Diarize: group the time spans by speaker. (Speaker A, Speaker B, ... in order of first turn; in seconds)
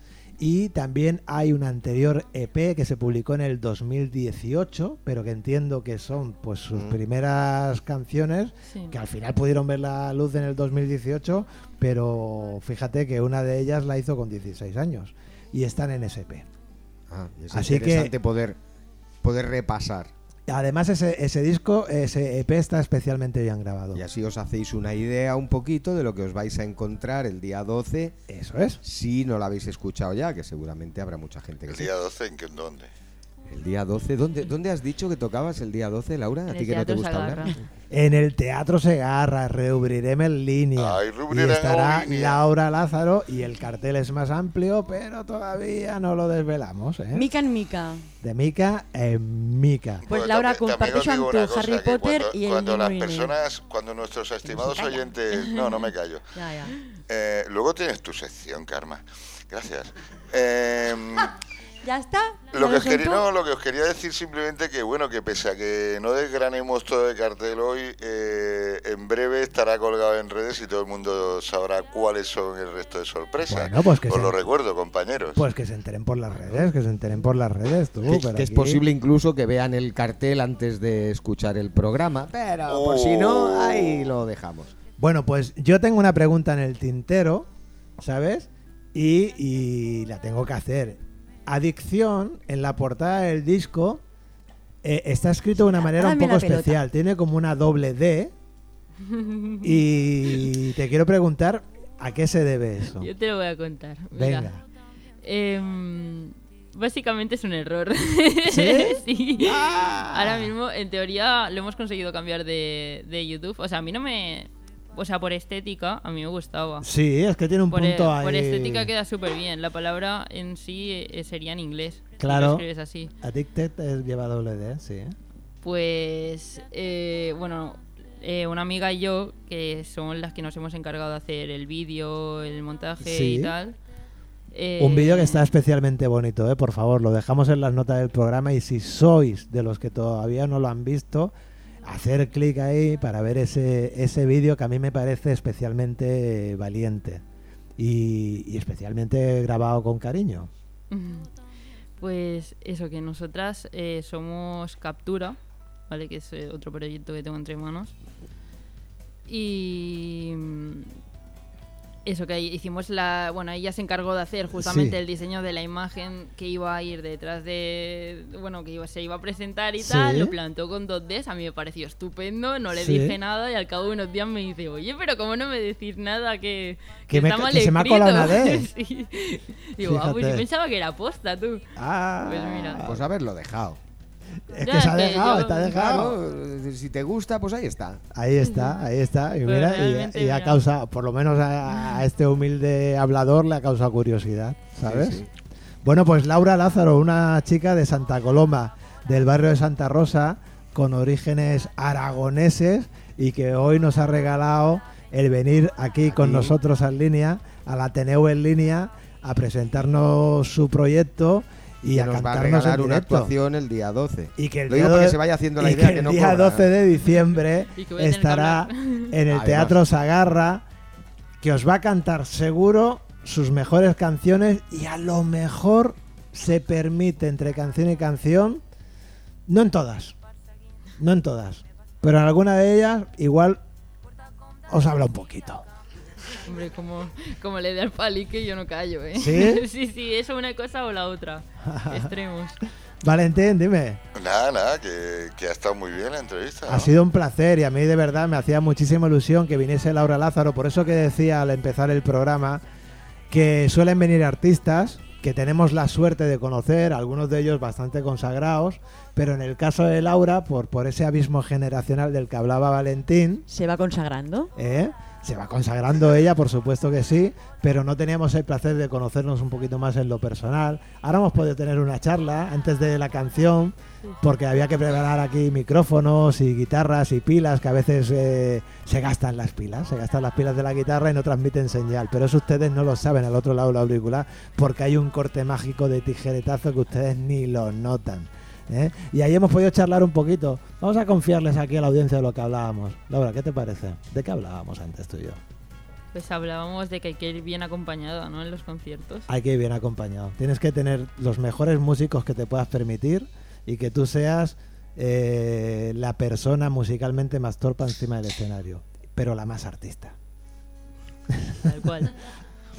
Speaker A: 0.4-16.4, 17.5-18.1, 20.5-24.0, 28.3-28.8, 37.9-47.3, 48.2-50.0, 73.5-74.4, 75.3-78.8, 85.0-87.5, 88.0-94.0, 94.8-98.3, 99.6-103.1, 104.1-104.6, 108.5-110.5, 116.8-118.9, 122.2-122.6, 123.2-125.2, 133.0-133.5, 134.8-141.3, 141.8-147.2, 147.8-150.5, 164.5-165.0, 169.8-170.3, 172.7-173.2, 177.1-178.7, 179.8-180.4, 181.8-183.1, 184.5-186.2, 188.1-195.2, 195.8-213.3, 214.4-220.6, 221.4-228.6, 229.5-230.1, 231.0-233.6, 234.7-235.6, 239.1-239.6, 241.6-242.1, 243.0-244.0, 246.7-252.6, 253.3-263.4, 264.6-295.4, 299.3-310.1
Speaker B: 8.7-8.9, 36.5-37.6, 99.0-99.8, 103.0-104.5, 105.2-116.9, 117.7-123.1, 125.6-133.8, 134.5-135.5, 150.9-151.3, 152.0-155.4, 155.9-157.9, 159.3-160.9, 162.1-181.6, 182.2-182.8, 184.6-185.7, 188.4-188.7, 189.4-190.6, 217.7-219.2, 236.4-242.6, 296.1-299.3, 311.6-312.1
Speaker C: 17.1-18.6, 19.2-20.1, 23.9-28.2, 28.8-31.9, 33.5-37.5, 78.1-84.7, 182.8-183.8, 185.7-188.0, 194.8-195.3, 206.1-206.6, 211.9-216.7, 219.3-219.8
Speaker D: 31.7-32.9, 40.8-42.4, 50.1-56.3, 57.1-61.3, 62.5-75.4, 82.7-84.1, 244.1-246.9
Speaker E: 47.1-48.0, 50.0-53.3, 54.5-55.0, 56.3-56.7, 61.8-63.3, 95.8-96.8, 263.5-264.5